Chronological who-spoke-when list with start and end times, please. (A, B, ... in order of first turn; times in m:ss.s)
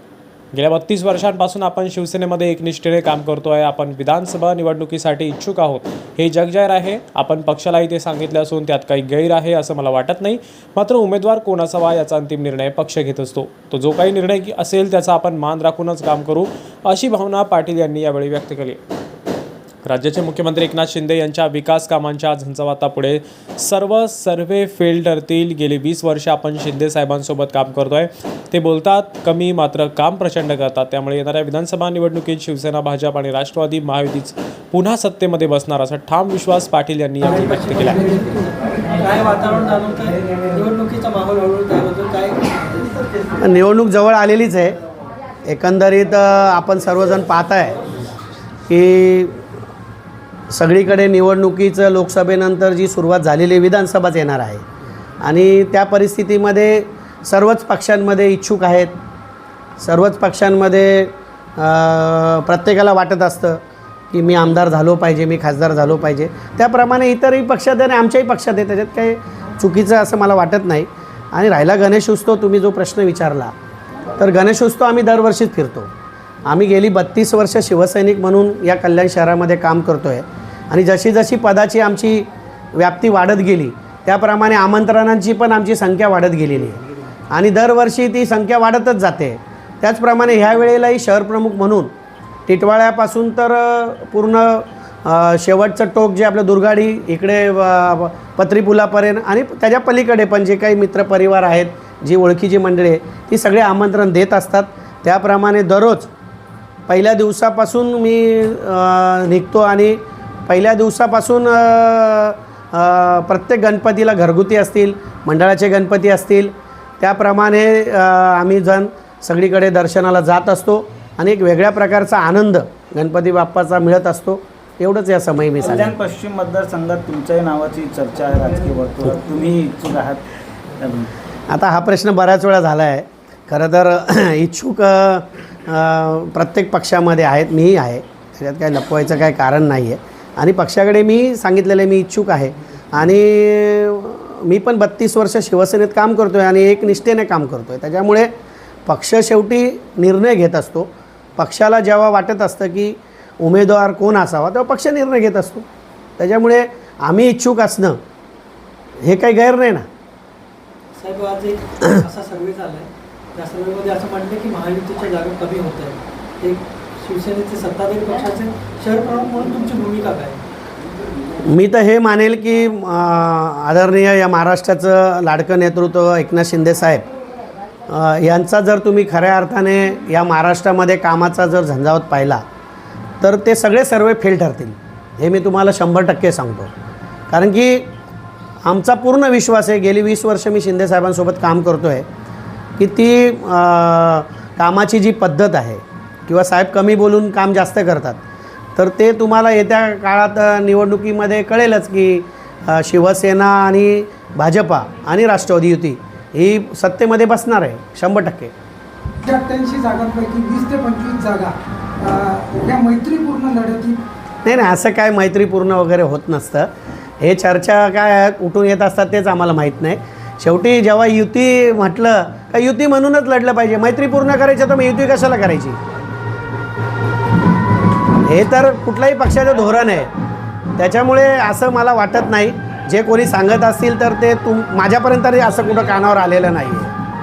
0:00.5-0:18.8 A
0:19.8-0:38.1 A
0:37.2-0:42.9 B
0:43.4-0:44.8 C
0:45.4-0:47.8 C
0:48.7-0:49.4 C
0:50.5-0:54.6 C
0:55.2-0:58.9 C
0:59.8-1:13.5 C
1:14.2-1:15.9 C
1:16.5-1:31.9 C
1:32.5-1:46.1 C
1:46.9-2:05.9 C
2:05.6-2:11.1 D
2:11.5-2:28.3 C
2:28.9-2:35.6 C
2:36.2-2:38.0 C
2:39.0-2:39.9 C
2:41.0-2:50.4 B
2:51.4-2:57.1 C
2:57.9-3:02.4 C
3:03.2-3:06.7 C
3:07.3-3:07.9 C
3:08.6-3:12.1 C
3:12.8-3:18.2 C
3:18.8-3:28.5 C
3:29.2-3:34.0 E
3:34.4-3:36.7 C
3:37.2-3:45.8 C
3:48.2-3:50.1 C
3:50.8-3:56.9 C